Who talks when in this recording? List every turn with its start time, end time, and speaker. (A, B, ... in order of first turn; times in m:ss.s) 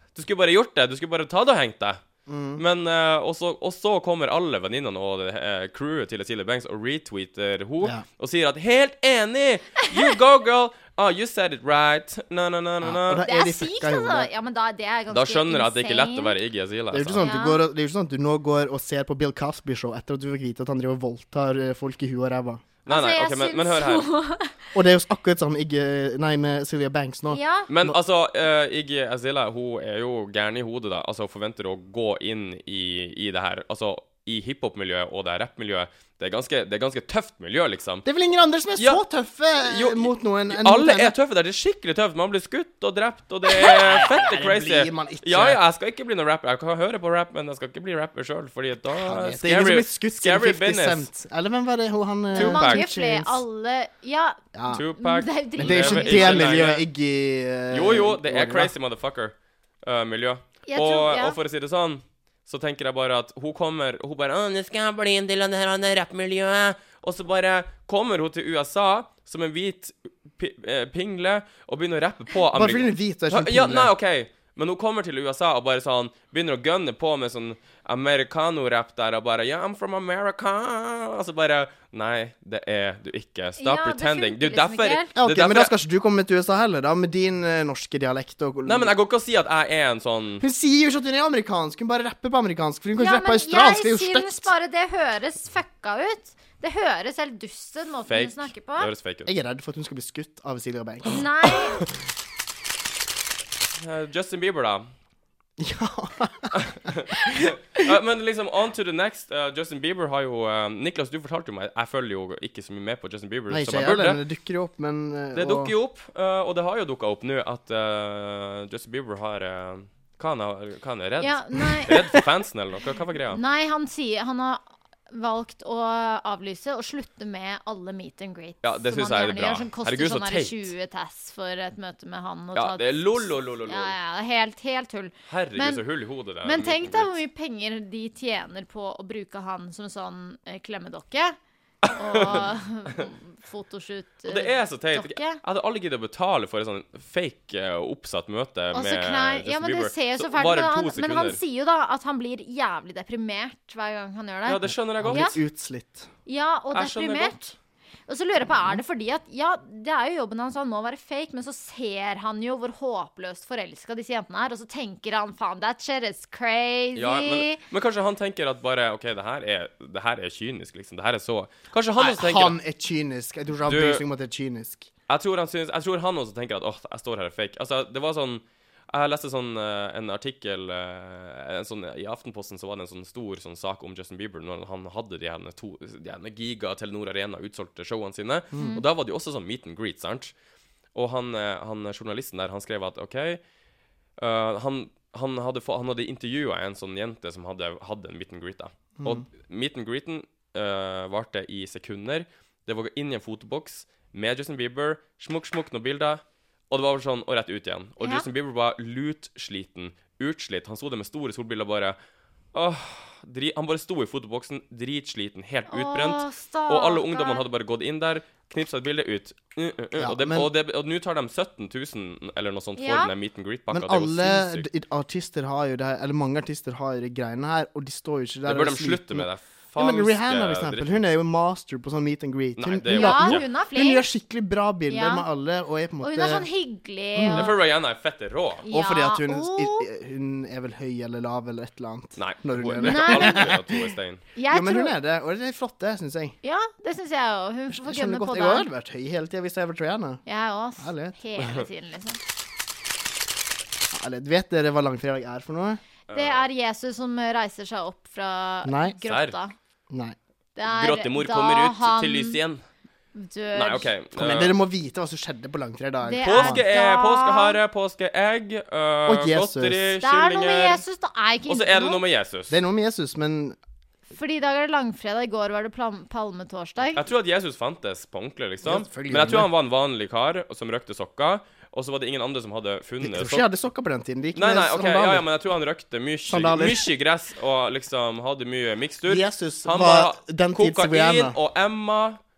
0:00.2-0:02.0 A
0:02.3-0:02.6 B
0:02.6-0:13.2 A
0:12.8-0:14.3 B
0:13.2-0:16.4 C
0:15.1-0:17.3 A
0:16.9-0:22.6 B
0:17.2-0:17.6 C
0:22.8-0:24.1 A
0:22.9-0:24.6 C
0:24.7-0:28.0 B
0:27.3-0:27.7 C
0:27.7-0:38.1 A
0:38.0-0:41.1 B
0:38.8-0:39.0 A
0:39.6-0:51.1 A
0:43.6-0:45.6 B
0:49.0-0:53.4 B
0:52.3-0:56.6 C
0:52.4-0:52.9 A
0:54.6-0:54.8 B
0:54.7-0:56.9 A
0:55.6-0:58.7 B
0:57.7-1:25.7 A
1:00.7-1:01.4 C
1:12.5-1:13.9 B
1:23.6-1:25.1 C
1:25.2-1:28.9 B
1:28.6-1:30.4 A
1:30.4-1:34.5 B
1:33.0-1:38.9 C
1:38.1-1:39.3 A
1:39.3-1:41.8 B
1:41.0-1:41.8 C
1:43.8-1:44.9 A
1:45.6-1:46.5 B
1:46.5-1:54.2 A
1:53.5-1:55.7 B
1:55.3-2:03.4 A
2:01.2-2:02.1 C
2:03.3-2:15.8 C
2:08.6-2:10.7 A
2:12.6-2:14.0 A
2:15.3-2:17.2 A
2:16.4-2:21.4 C
2:21.8-2:23.1 A
2:21.9-2:25.4 C
2:24.3-2:31.4 A
2:28.7-2:35.4 C
2:34.5-2:35.4 A
2:35.0-2:36.1 B
2:36.3-2:37.5 C
2:36.7-2:37.4 A
2:38.1-2:47.6 C
2:47.0-2:52.6 A
2:52.0-2:54.9 B
2:53.6-2:54.0 A
2:55.1-3:10.3 A
3:08.5-3:08.8 B
3:08.6-3:08.8 C
3:11.0-3:13.4 A
3:14.2-3:32.0 A
3:19.0-3:19.2 B
3:28.0-3:28.2 C
3:32.5-3:44.7 A
3:35.7-3:37.4 C
3:40.0-3:40.5 B
3:42.8-3:43.1 C
3:43.7-3:56.5 B
3:48.5-3:51.0 A
3:52.6-3:53.4 A
3:52.9-3:54.1 C
3:54.9-3:55.2 C
3:56.0-3:57.6 C
3:57.2-3:57.5 B
3:57.3-3:58.6 A
3:58.6-3:59.9 C
3:58.7-4:03.8 B
4:02.2-4:04.2 A
4:02.8-4:03.6 C
4:04.4-4:05.0 C
4:04.5-4:06.4 B
4:06.4-4:08.7 C
4:07.8-4:10.2 B
4:10.3-4:12.2 C
4:10.8-4:11.6 B
4:13.9-4:15.8 B
4:16.1-4:16.5 A
4:16.1-4:19.5 C
4:18.6-4:19.0 B
4:19.0-4:19.4 A
4:19.9-4:20.2 B
4:20.6-4:22.4 C
4:20.6-4:22.6 A
4:23.2-4:23.9 C
4:23.5-4:24.6 A
4:24.2-4:26.6 B
4:26.0-4:27.6 C
4:26.2-4:30.8 A
4:29.1-4:29.9 B
4:30.0-4:32.0 C
4:31.5-4:32.6 A
4:32.5-4:33.6 B
4:34.1-4:37.1 C
4:37.0-4:43.5 A
4:38.6-4:39.5 B
4:43.0-4:45.3 B
4:44.4-4:52.2 A
4:46.3-4:46.9 B
4:49.1-4:51.4 B